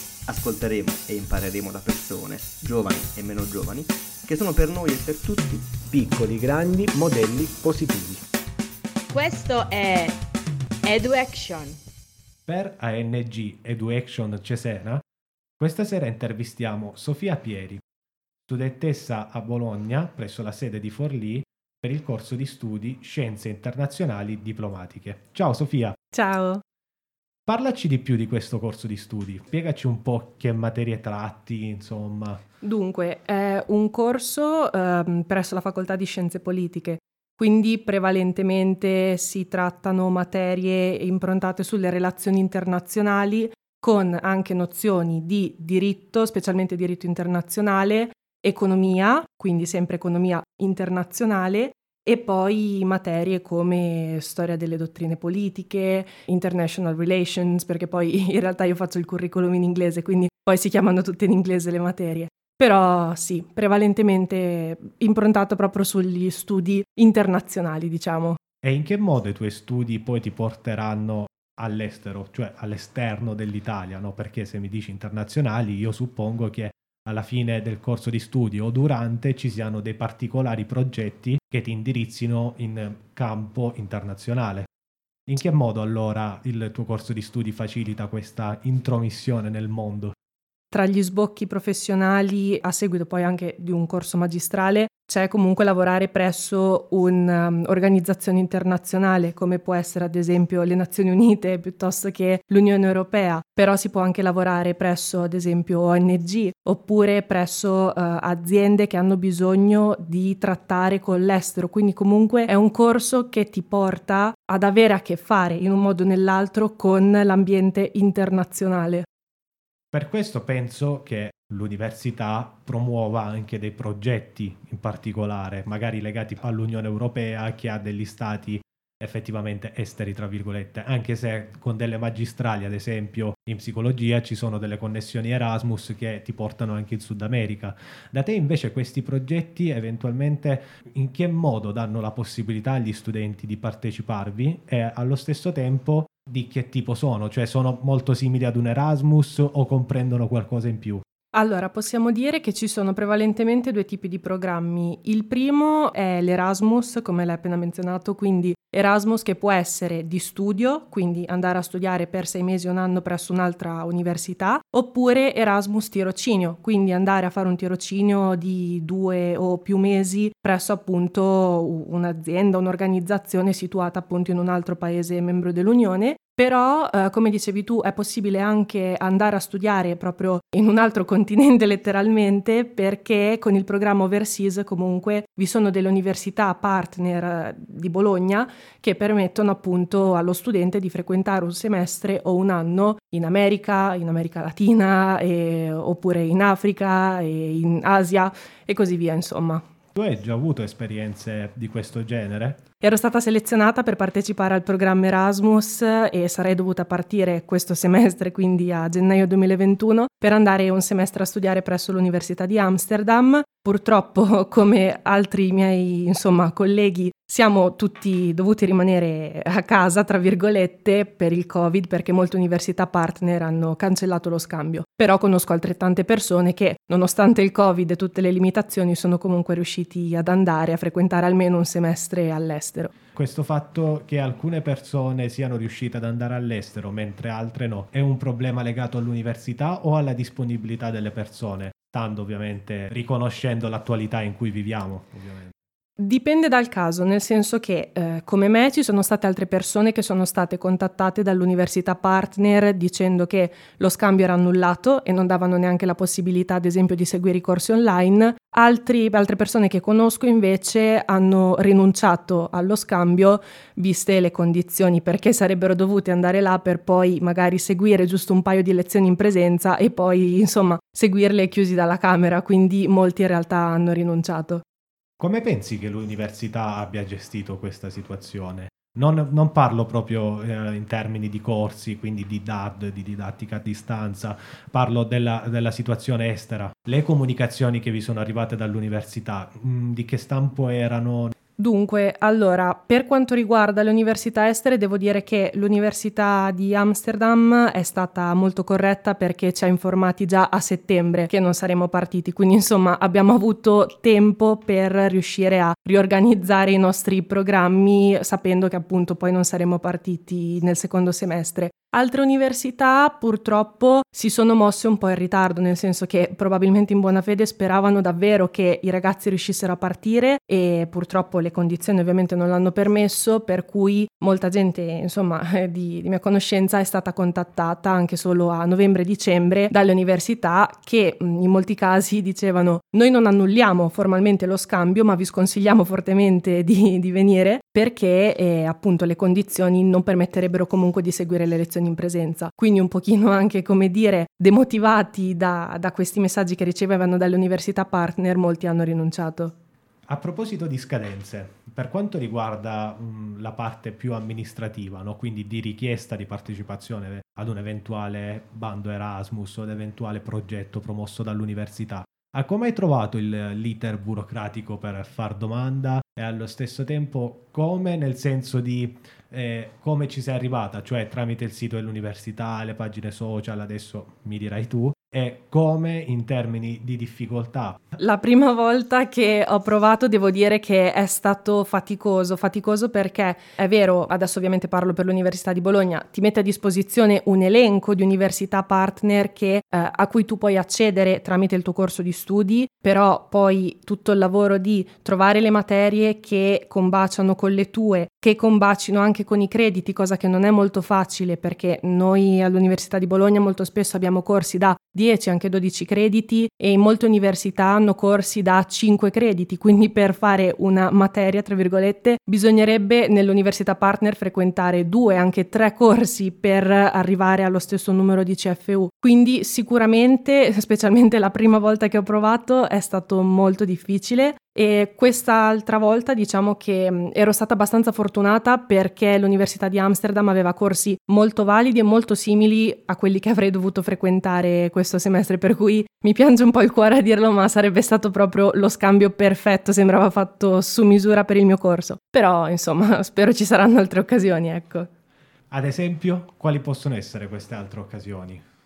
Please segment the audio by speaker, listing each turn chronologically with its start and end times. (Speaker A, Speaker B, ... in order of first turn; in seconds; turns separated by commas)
Speaker A: 0.3-5.8, Speaker B: 5.9-8.2, Speaker C: 9.1-10.2, Speaker C: 10.8-11.8, Speaker D: 12.5-15.0, Speaker D: 15.6-17.8, Speaker D: 18.5-26.0, Speaker E: 26.1-26.6, Speaker D: 27.5-32.4, Speaker E: 32.6-68.4, Speaker D: 68.6-84.7, Speaker D: 85.3-90.1, Speaker E: 90.7-119.1, Speaker D: 119.9-151.0, Speaker E: 151.3-199.6, Speaker D: 199.9-202.6, Speaker E: 202.8-232.9, Speaker D: 233.2-245.5, Speaker E: 246.0-274.6, Speaker D: 275.2-291.4, Speaker E: 291.6-349.6, Speaker D: 350.1-377.8, Speaker E: 378.0-444.9, Speaker D: 445.5-448.4